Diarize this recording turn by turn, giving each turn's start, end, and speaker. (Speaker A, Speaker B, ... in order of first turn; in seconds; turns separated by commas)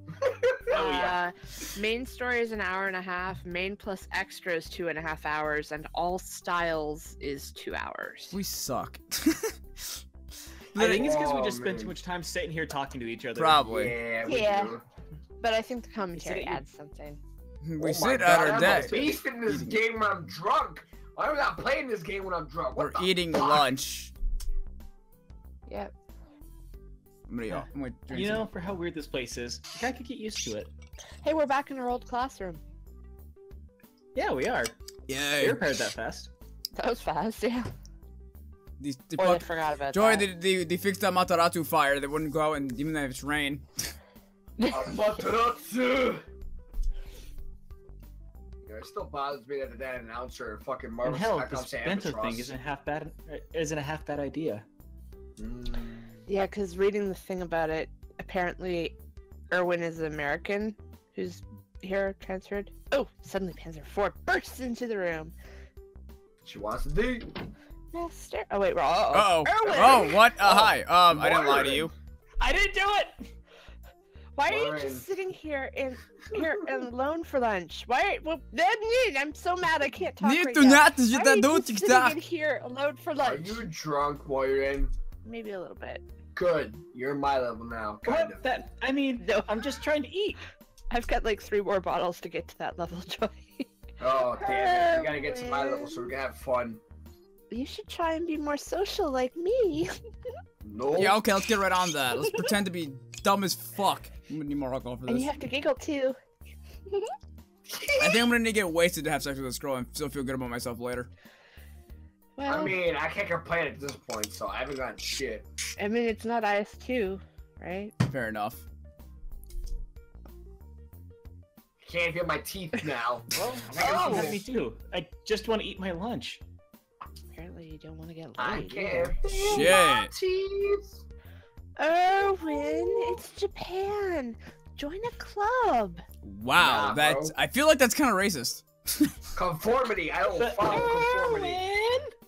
Speaker A: 0.2-0.7, Speaker B: 0.7-8.4, Speaker C: 0.7-1.2, Speaker D: 8.3-10.0, Speaker D: 10.7-11.1, Speaker C: 10.7-13.8, Speaker A: 10.9-12.0, Speaker D: 13.4-13.9, Speaker A: 13.7-14.8, Speaker B: 14.2-14.8, Speaker B: 15.4-17.2, Speaker C: 16.1-16.6, Speaker D: 17.6-19.8, Speaker A: 17.8-23.7, Speaker C: 18.5-19.2, Speaker D: 22.8-24.1, Speaker B: 25.7-25.9, Speaker D: 27.3-28.5, Speaker C: 27.5-30.7, Speaker B: 31.2-32.6, Speaker C: 34.1-34.8, Speaker D: 35.1-35.6, Speaker C: 35.4-36.3, Speaker B: 36.8-37.7, Speaker D: 38.8-43.9, Speaker B: 39.2-40.3, Speaker B: 44.6-45.0, Speaker A: 44.7-46.2, Speaker A: 48.6-52.6, Speaker C: 51.0-54.6, Speaker A: 55.4-56.2, Speaker B: 56.3-59.0, Speaker B: 59.5-65.3, Speaker A: 66.4-67.4, Speaker B: 67.9-70.2, Speaker D: 69.1-71.9, Speaker A: 70.4-71.9, Speaker C: 72.4-73.2, Speaker B: 74.3-83.7, Speaker A: 74.5-75.0, Speaker D: 80.2-82.2, Speaker A: 83.2-84.9, Speaker B: 85.2-86.0, Speaker A: 86.3-88.5, Speaker C: 88.0-90.4, Speaker B: 89.2-89.6, Speaker B: 90.9-93.7, Speaker A: 94.0-96.8, Speaker B: 94.3-96.1, Speaker B: 97.5-99.9, Speaker A: 100.6-101.2, Speaker D: 101.0-105.3, Speaker B: 105.0-106.2, Speaker A: 107.7-108.3, Speaker D: 108.0-111.1, Speaker B: 112.3-112.8, Speaker A: 112.5-115.5, Speaker B: 115.8-117.9, Speaker D: 118.0-118.6, Speaker A: 121.8-124.4, Speaker C: 123.3-126.4, Speaker B: 123.8-124.3, Speaker B: 127.3-129.8, Speaker A: 128.4-131.0, Speaker D: 129.3-130.1, Speaker B: 131.8-136.0, Speaker A: 132.7-133.2, Speaker D: 136.2-139.2, Speaker A: 136.6-137.3, Speaker A: 139.3-141.6, Speaker C: 140.3-142.1